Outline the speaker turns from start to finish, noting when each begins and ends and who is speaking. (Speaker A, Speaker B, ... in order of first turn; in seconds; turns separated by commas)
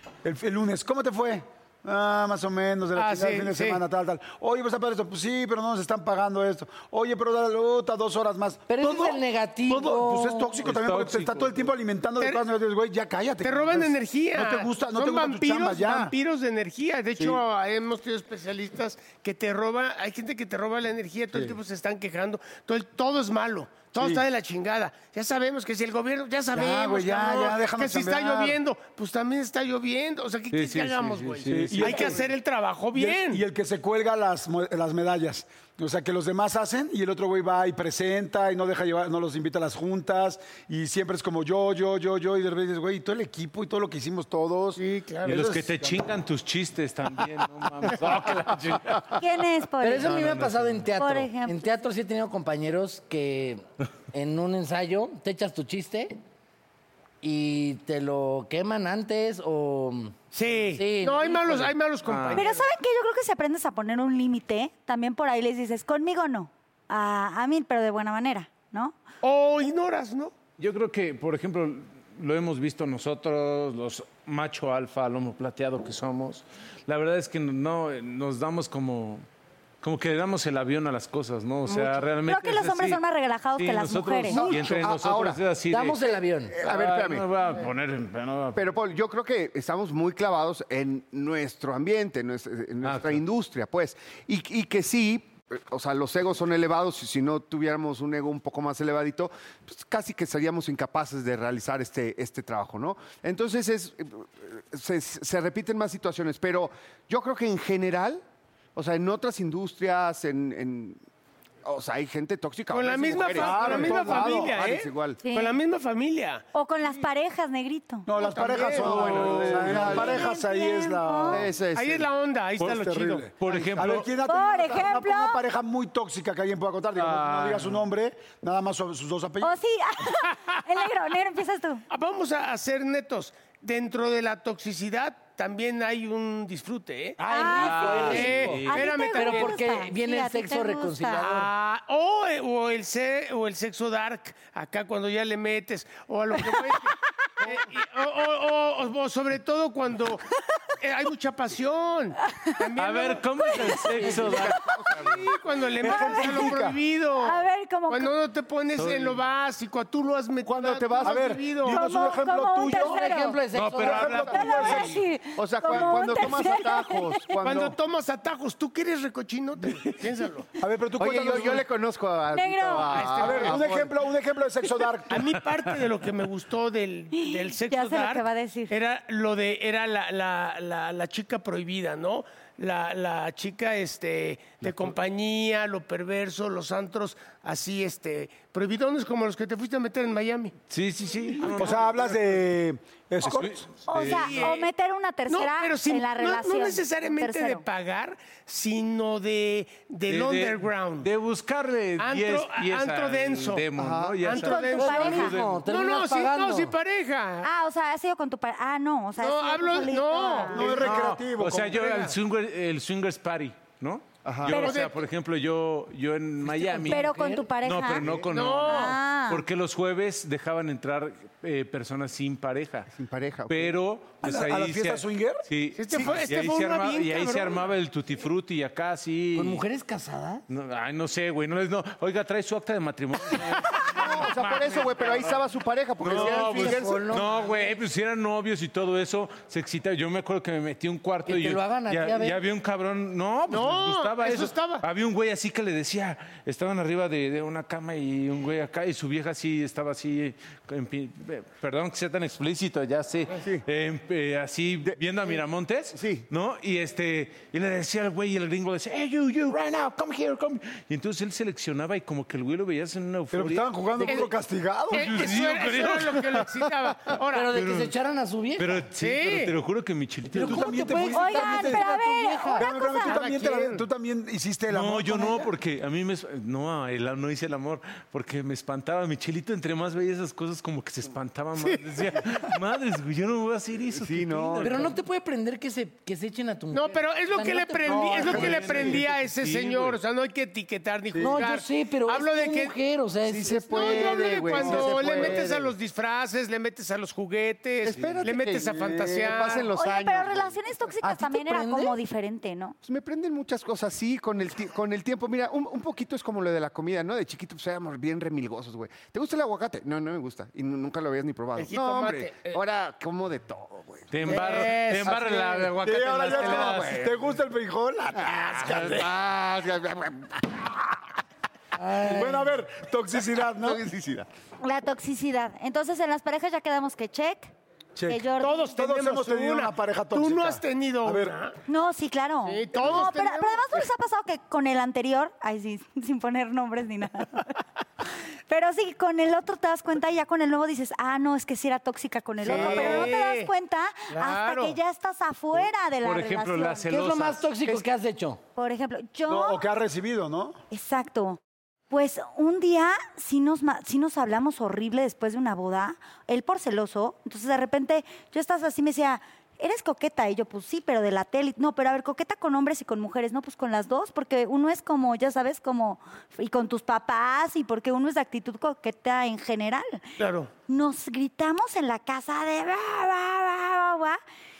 Speaker A: 0.2-16.1, Speaker B: 3.0-3.8, Speaker C: 8.7-10.6, Speaker D: 10.6-11.7, Speaker B: 12.2-12.5, Speaker B: 13.4-33.5, Speaker A: 17.2-17.4, Speaker A: 24.0-24.2, Speaker A: 26.5-28.6, Speaker D: 30.5-32.1, Speaker A: 31.5-32.2, Speaker A: 32.9-46.1, Speaker B: 44.8-45.4, Speaker D: 45.2-49.1, Speaker E: 49.2-50.1, Speaker C: 49.8-56.2, Speaker D: 50.0-50.7, Speaker E: 51.0-51.8, Speaker C: 57.2-60.2, Speaker B: 60.3-62.7, Speaker C: 60.8-61.8, Speaker D: 62.0-62.5, Speaker E: 62.3-69.0, Speaker B: 69.2-70.3, Speaker D: 70.6-79.2, Speaker D: 79.8-83.0, Speaker B: 81.7-82.1, Speaker E: 82.3-84.5, Speaker D: 83.6-86.0, Speaker F: 84.3-85.4, Speaker C: 85.7-86.6, Speaker F: 86.5-87.3, Speaker D: 86.6-88.7, Speaker F: 88.6-108.2, Speaker D: 92.8-93.2, Speaker F: 108.8-111.0, Speaker F: 111.7-115.2, Speaker B: 112.7-116.5, Speaker A: 113.3-114.9, Speaker E: 115.2-115.6, Speaker E: 116.5-118.1, Speaker A: 118.1-121.5, Speaker B: 118.2-119.1, Speaker F: 118.8-120.3, Speaker D: 118.8-120.0, Speaker E: 119.8-121.5, Speaker F: 121.3-122.1, Speaker B: 121.7-123.7, Speaker D: 122.6-122.8, Speaker A: 122.7-129.6, Speaker D: 123.4-124.1, Speaker E: 124.2-125.4, Speaker D: 127.0-127.8, Speaker E: 129.4-131.8, Speaker B: 131.9-139.6, Speaker C: 137.2-138.3, Speaker E: 137.2-141.3, Speaker D: 137.4-138.9, Speaker C: 139.1-141.5, Speaker B: 141.3-150.2, Speaker B: 150.8-161.9, Speaker D: 152.8-154.6, Speaker F: 154.2-155.2, Speaker A: 155.8-156.8, Speaker E: 155.9-156.4, Speaker E: 157.2-158.2, Speaker D: 158.8-159.2, Speaker F: 160.4-161.3, Speaker A: 161.0-163.0, Speaker E: 161.7-163.4, Speaker C: 162.7-164.2, Speaker D: 163.5-164.9, Speaker A: 163.8-165.0, Speaker E: 164.3-167.3, Speaker F: 165.4-167.8, Speaker B: 167.4-170.5, Speaker A: 170.6-171.7, Speaker F: 171.0-173.9, Speaker E: 172.3-173.1, Speaker B: 172.8-173.7, Speaker A: 173.1-175.3, Speaker B: 175.1-190.5, Speaker E: 177.1-178.7, Speaker D: 184.6-185.0, Speaker D: 190.7-192.3, Speaker B: 191.4-191.9, Speaker A: 191.6-193.7, Speaker D: 193.2-194.5, Speaker E: 193.9-197.7, Speaker B: 194.0-194.7, Speaker B: 195.3-201.1, Speaker D: 200.1-205.6, Speaker B: 202.0-203.7, Speaker F: 203.8-204.3, Speaker B: 204.2-207.5, Speaker E: 204.3-205.3, Speaker C: 204.7-206.7, Speaker E: 207.4-210.7, Speaker B: 209.2-210.9, Speaker A: 210.5-211.9, Speaker D: 210.7-217.0, Speaker B: 211.8-212.1, Speaker F: 214.2-214.8, Speaker B: 214.4-215.1, Speaker C: 216.4-217.5, Speaker E: 216.9-218.1, Speaker D: 217.6-222.9, Speaker B: 218.2-219.0, Speaker E: 218.7-219.4, Speaker F: 222.9-223.8, Speaker D: 223.5-229.6, Speaker A: 224.2-225.5, Speaker B: 225.8-227.7, Speaker C: 229.3-230.4, Speaker D: 230.5-235.4, Speaker F: 233.8-237.1, Speaker D: 236.0-264.1, Speaker C: 236.1-237.4, Speaker C: 241.3-242.4, Speaker B: 243.5-244.8, Speaker F: 254.8-255.3, Speaker F: 255.9-256.3, Speaker A: 263.3-265.1, Speaker B: 264.0-264.3, Speaker D: 264.9-266.5, Speaker B: 264.9-267.5, Speaker C: 267.3-268.8, Speaker D: 267.5-267.9, Speaker D: 268.6-271.0, Speaker B: 269.0-269.5, Speaker A: 270.3-271.9, Speaker C: 270.3-272.6, Speaker E: 271.1-273.2, Speaker A: 272.6-275.5, Speaker B: 273.0-273.9, Speaker D: 274.7-284.9, Speaker F: 283.9-284.9, Speaker C: 284.6-288.6, Speaker B: 286.7-292.8, Speaker A: 287.9-289.0, Speaker D: 288.2-290.0, Speaker A: 291.1-291.4, Speaker C: 291.2-294.4, Speaker F: 293.3-295.7, Speaker B: 293.7-299.7, Speaker F: 297.9-300.6, Speaker A: 298.8-299.2, Speaker E: 299.8-302.8, Speaker C: 301.0-302.0, Speaker F: 302.8-314.5, Speaker B: 311.6-312.6, Speaker D: 314.1-317.1, Speaker B: 314.2-315.8, Speaker A: 315.8-319.1, Speaker F: 316.3-317.1, Speaker F: 318.2-320.6, Speaker C: 321.8-322.4, Speaker A: 322.0-323.8, Speaker F: 323.6-324.3, Speaker E: 324.6-327.5, Speaker A: 328.0-331.4, Speaker E: 328.1-328.7, Speaker B: 328.4-331.6, Speaker E: 331.7-337.6, Speaker B: 332.4-333.8, Speaker E: 338.5-347.0, Speaker B: 342.4-343.5, Speaker B: 344.1-344.8, Speaker D: 346.0-347.6, Speaker C: 346.9-348.4, Speaker E: 348.6-349.6, Speaker A: 349.3-350.6, Speaker E: 350.7-351.4, Speaker E: 351.9-370.1, Speaker B: 370.2-370.5, Speaker E: 370.7-374.2